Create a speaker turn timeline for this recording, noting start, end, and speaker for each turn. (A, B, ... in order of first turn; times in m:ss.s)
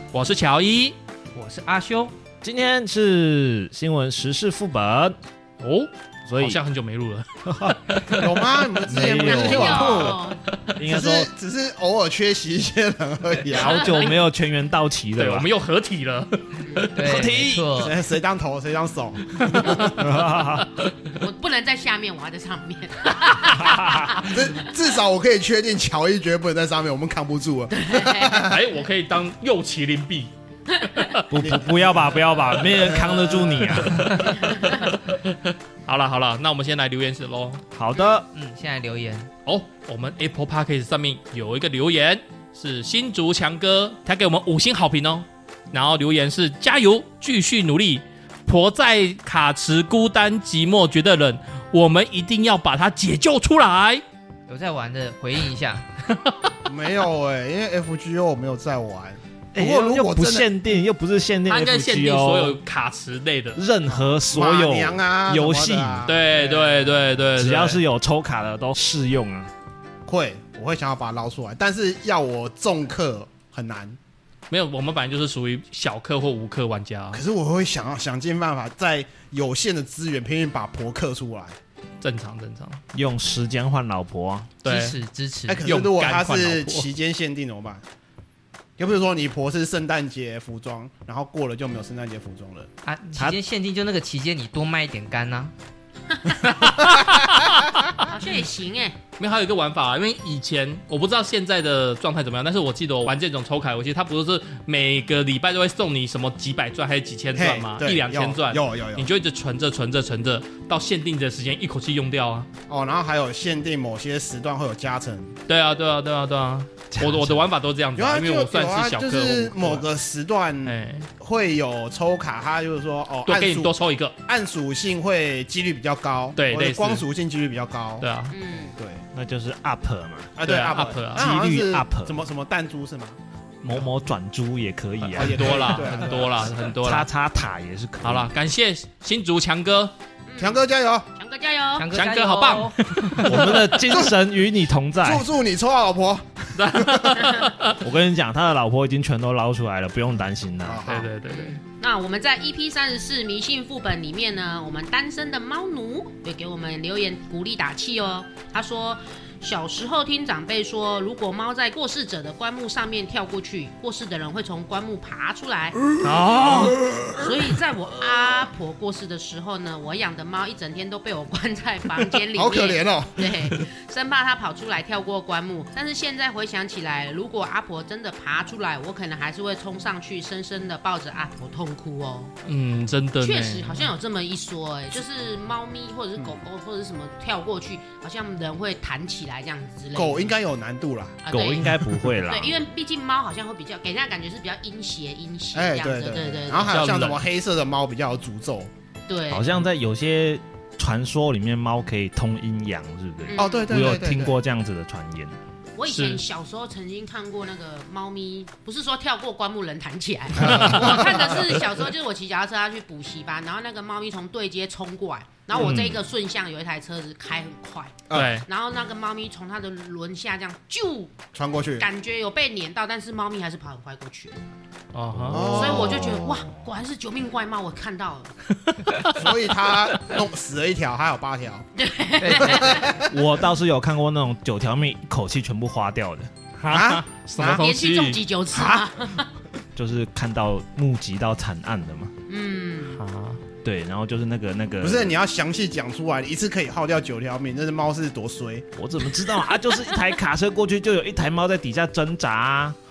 0:00.1-0:01.0 A
0:01.3-0:02.1 B
0:02.4-0:05.2 C
0:05.6-0:07.3 A
0:06.3-0:06.6 C
0:07.5-0:08.2 C
0:08.1-0:10.2 D
0:08.9-0:10.2 C
0:09.1-0:10.4 E
0:10.8-0:11.3 C
0:10.8-0:13.9 D
0:13.5-0:15.5 C
0:13.6-0:14.1 E
0:15.2-0:16.9 A
0:16.9-0:18.0 B
0:17.0-0:17.8 C
0:17.8-0:20.3 D
0:19.4-0:19.9 A
0:20.0-0:20.7 C
0:20.6-0:20.9 A
0:21.1-0:24.7 E
0:23.7-0:24.0 C
0:24.2-0:28.6 D
0:27.7-0:28.5 E
0:28.5-0:30.3 A
0:30.7-0:31.2 E
0:31.0-0:31.2 A
0:31.3-0:34.5 C
0:31.4-0:31.7 D
0:32.8-0:33.6 D
0:33.6-0:37.6 A
0:34.4-0:34.8 E
0:37.7-0:38.2 C
0:38.3-0:39.3 B
0:39.4-0:54.0 A
0:54.5-0:55.9 B
0:56.6-1:00.5 D
0:59.5-1:02.6 C
1:01.5-1:03.6 A
1:03.6-1:06.0 C
1:03.9-1:07.0 D
1:06.0-1:07.8 A
1:07.4-1:09.5 C
1:10.0-1:14.0 D
1:14.5-1:17.2 A
1:17.1-1:21.6 D
1:22.0-1:22.8 A
1:22.9-1:24.5 C
1:24.6-1:25.0 A
1:24.6-1:25.7 B
1:25.5-1:27.8 D
1:25.7-1:26.9 A
1:28.8-1:32.7 D
1:32.8-1:35.5 B
1:36.9-1:38.1 A
1:38.0-1:39.0 E
1:39.2-1:52.5 A
1:47.3-1:49.1 D
1:52.7-1:55.3 D
1:55.5-1:59.8 A
1:56.9-1:57.4 C
1:58.0-2:03.7 D
2:00.6-2:01.1 A
2:03.3-2:04.1 A
2:04.2-2:08.1 D
2:06.4-2:07.0 A
2:08.0-2:08.3 A
2:08.3-2:08.8 E
2:08.8-2:09.0 D
2:09.1-2:10.3 C
2:10.4-2:13.2 D
2:10.4-2:11.3 A
2:11.1-2:12.1 C
2:13.6-2:18.3 C
2:15.1-2:16.5 D
2:15.1-2:17.1 A
2:18.0-2:19.9 A
2:20.3-2:20.6 E
2:20.4-2:21.1 D
2:21.2-2:21.9 E
2:21.7-2:23.2 B
2:21.9-2:23.4 A
2:23.2-2:25.3 C
2:23.3-2:24.2 D
2:25.0-2:27.1 D
2:26.6-2:27.8 A
2:27.8-2:30.8 C
2:30.6-2:31.1 D
2:30.9-2:31.6 A
2:31.2-2:45.8 E
2:45.8-2:47.3 D
2:46.0-2:47.0 A
2:47.1-3:02.3 E
2:52.0-2:53.6 D
3:02.4-3:03.9 A
3:03.2-3:10.4 E
3:09.9-3:11.2 D
3:11.2-3:16.8 E
3:11.3-3:12.6 C
3:15.5-3:18.7 D
3:16.7-3:17.2 A
3:19.1-3:19.6 E
3:19.3-3:25.4 C
3:23.2-3:23.7 E
3:23.4-3:24.3 D
3:25.8-3:44.4 E
3:25.8-3:26.2 A
3:30.4-3:31.4 D
3:30.4-3:31.0 A
3:35.5-3:35.9 A
3:35.6-3:35.9 C
3:38.1-3:38.4 D
3:38.1-3:38.4 A
3:41.3-3:41.9 D
3:44.9-3:45.8 A
3:45.2-3:46.5 C
3:45.3-3:46.3 D
3:45.4-3:48.3 E
3:48.7-3:49.1 A
3:49.1-3:51.7 D
3:51.8-3:53.0 E
3:52.2-3:52.8 B
3:52.4-3:53.1 D
3:53.0-3:56.3 C
3:56.6-3:58.2 A
3:56.7-3:57.6 D
3:57.4-3:59.3 E
3:58.5-3:58.9 D
3:59.8-4:02.1 C
4:02.3-4:03.0 E
4:03.0-4:03.4 A
4:03.6-4:05.1 C
4:04.8-4:08.7 D
4:08.8-4:12.8 C